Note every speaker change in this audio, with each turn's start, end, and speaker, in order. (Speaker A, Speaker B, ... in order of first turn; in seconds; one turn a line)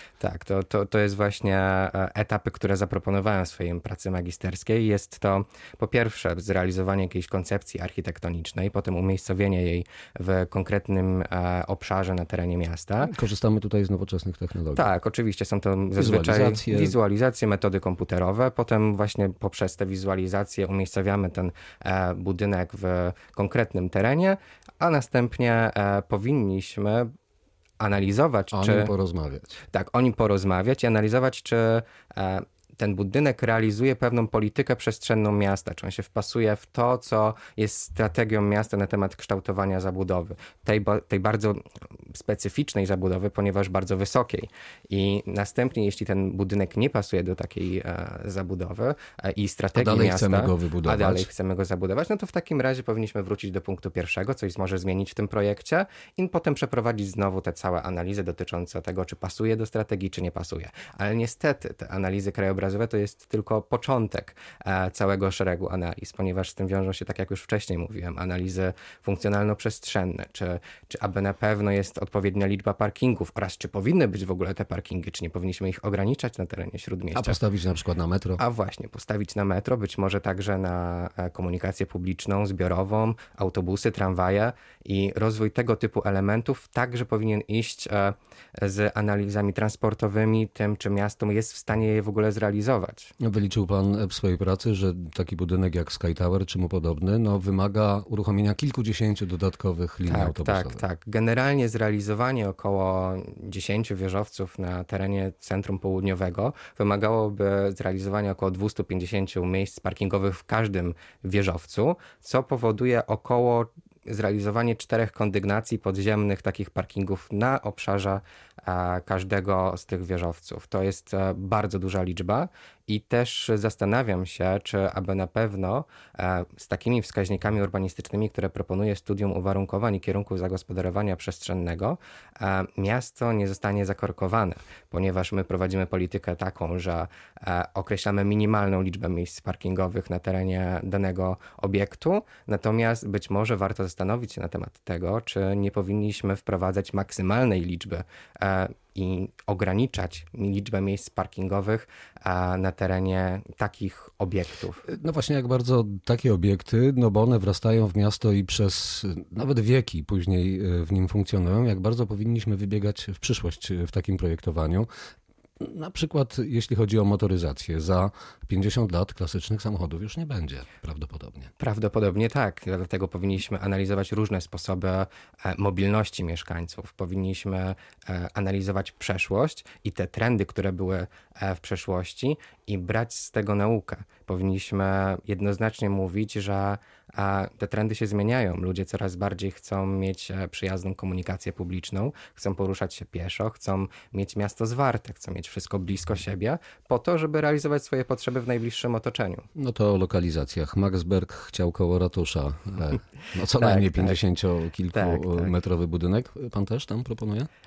Speaker A: 0.2-13.1
Speaker B: 13.0-14.9
Speaker A: 14.8-27.1
Speaker B: 16.0-17.0
Speaker A: 27.8-28.9
Speaker B: 28.5-29.5
Speaker A: 29.7-77.4
Speaker B: 49.8-51.3
Speaker B: 77.1-78.4
Speaker A: 78.4-93.1
Speaker B: 93.2-100.8
Speaker A: 100.1-154.8
Speaker B: 154.9-164.9
Speaker B: 165.6-171.5
Speaker A: 171.6-199.5
Speaker B: 199.6-207.5
Speaker A: 203.6-204.2
Speaker A: 204.9-205.6